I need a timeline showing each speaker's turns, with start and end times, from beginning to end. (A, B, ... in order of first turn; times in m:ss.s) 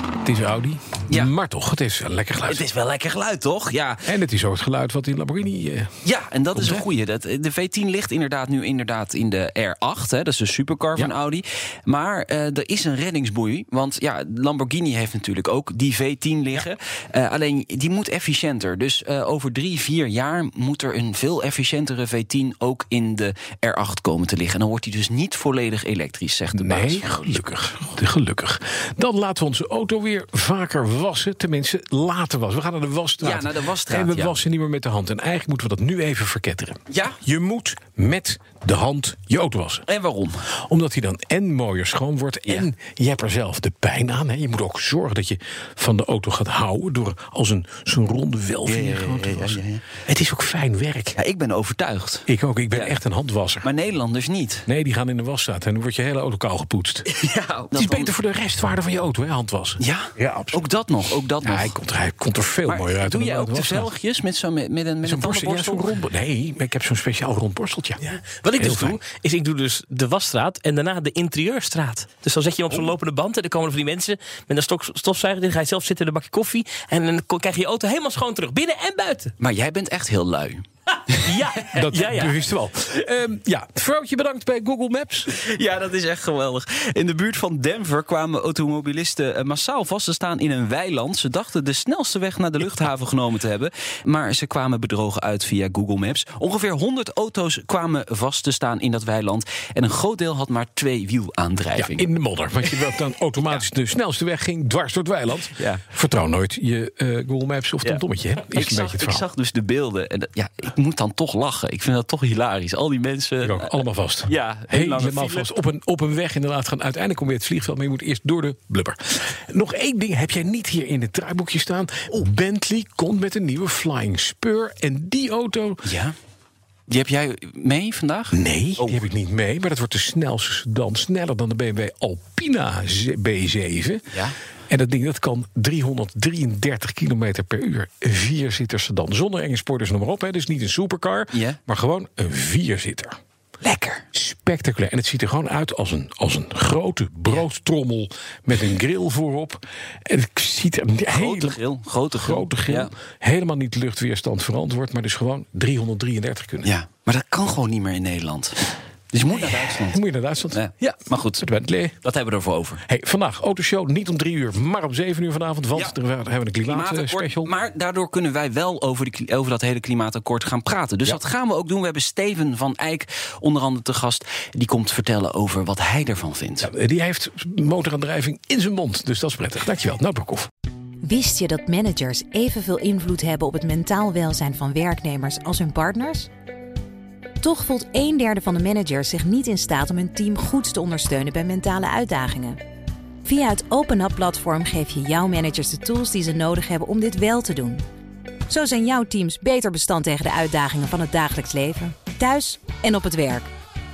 0:00.2-0:02.6 A
0:02.5-0:04.1 B
0:04.0-0:05.9 A
0:06.0-0:27.6 B
0:06.5-0:06.8 A
0:26.5-0:39.8 A
0:33.2-0:34.4 B
0:36.9-0:37.2 B
0:39.9-0:40.4 B
0:40.7-0:51.2 A
0:48.6-0:49.8 B
0:51.1-0:53.0 B
0:52.3-0:53.7 A
0:53.6-0:54.6 B
0:54.7-0:57.1 A
0:57.1-0:58.1 B
0:57.7-1:00.6 A
0:59.8-1:01.7 B
1:01.4-1:03.9 A
1:02.7-1:06.0 B
1:05.0-1:08.0 A
1:08.0-1:19.3 C
1:08.5-1:09.0 A
1:19.4-1:20.6 B
1:21.1-1:22.4 C
1:21.7-1:25.3 A
1:25.3-1:42.1 B
1:41.8-1:49.2 A
1:45.6-1:45.8 B
1:47.8-1:55.5 B
1:53.4-2:05.8 A
2:05.8-2:06.1 B
2:06.9-2:09.0 B
2:08.3-2:14.0 A
2:14.7-2:23.2 A
2:21.3-2:21.6 B
2:23.6-2:24.0 B
2:24.1-2:31.6 A
2:31.1-2:32.9 B
2:32.1-2:36.7 A
2:36.6-2:40.0 B
2:39.8-2:42.0 A
2:40.5-2:41.4 B
2:42.0-2:42.8 B
2:42.8-2:47.5 A
2:46.6-2:56.7 B
2:56.6-3:00.5 A
3:01.0-3:06.3 D
3:07.4-3:12.6 D
3:13.2-3:17.8 D
3:18.5-3:23.5 D